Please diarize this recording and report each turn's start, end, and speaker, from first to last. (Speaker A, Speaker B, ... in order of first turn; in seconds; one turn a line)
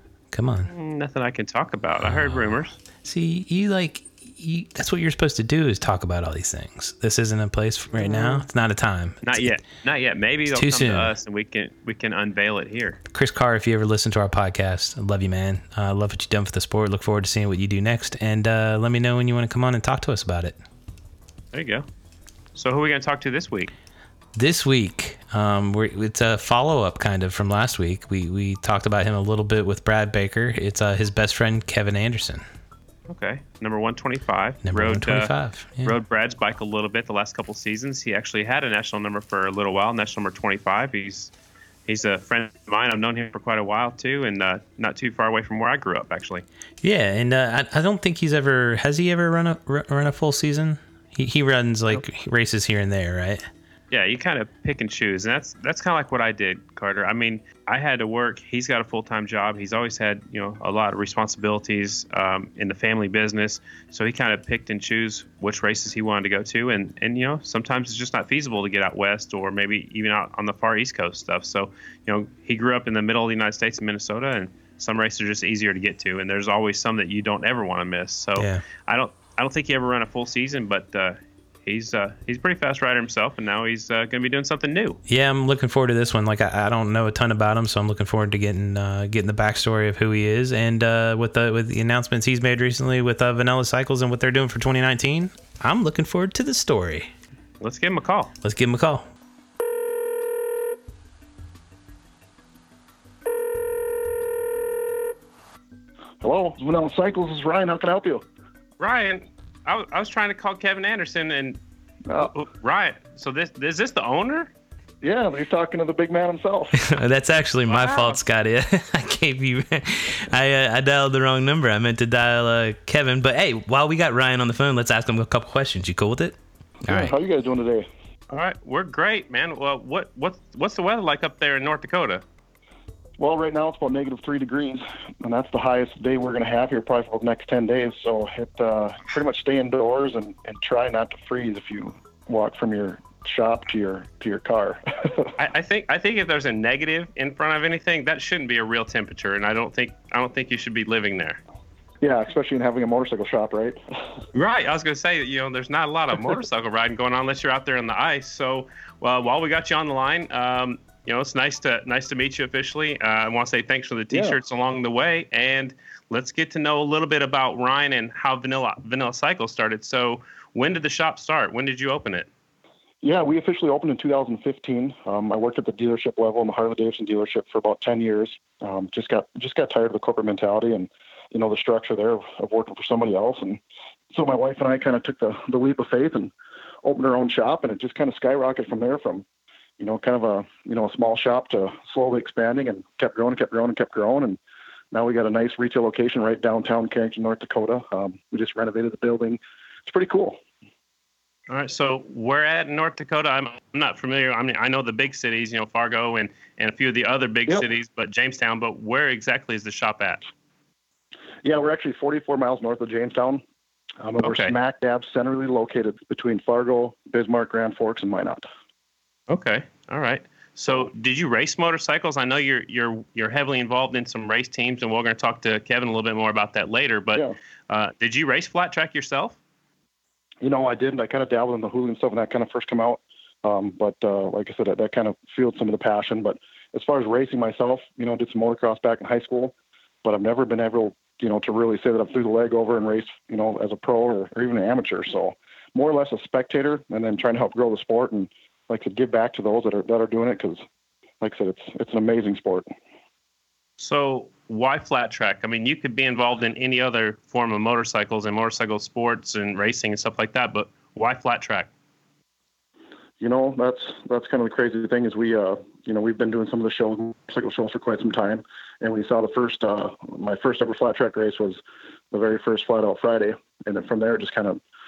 Speaker A: 0.3-0.7
Speaker B: 0.7-2.8
Speaker A: 2.0-2.5
Speaker A: 3.0-9.6
Speaker B: 8.0-8.4
Speaker B: 9.2-13.0
Speaker A: 10.5-11.1
Speaker A: 13.1-20.6
Speaker B: 21.5-21.9
Speaker B: 22.6-23.7
Speaker A: 24.4-32.4
Speaker B: 33.1-41.3
Speaker A: 34.7-36.0
Speaker B: 41.9-46.5
Speaker A: 46.8-53.4
Speaker B: 53.9-85.0
Speaker A: 78.4-78.6
Speaker A: 85.1-97.1
Speaker B: 97.6-98.3
Speaker A: 98.4-99.0
Speaker C: 106.2-108.2
Speaker B: 108.8-111.6
Speaker C: 112.1-112.3
Speaker B: 112.3-114.5
Speaker C: 115.0-116.8
Speaker A: 116.8-127.2
Speaker B: 117.7-118.2
Speaker C: 126.8-127.9
Speaker B: 128.3-132.2
Speaker C: 133.2-145.3
Speaker B: 145.4-151.4
Speaker C: 152.0-154.2
Speaker B: 154.3-172.3
Speaker C: 164.1-164.4
Speaker C: 173.0-183.6
Speaker C: 184.1-186.3
Speaker C: 186.8-189.3
Speaker C: 189.8-194.4
Speaker C: 194.9-200.4
Speaker B: 201.5-210.3
Speaker C: 211.4-213.4
Speaker C: 214.0-218.5
Speaker B: 214.2-214.5
Speaker B: 219.3-229.4
Speaker C: 230.4-250.6
Speaker C: 251.2-252.7
Speaker B: 253.8-261.7
Speaker C: 263.2-274.6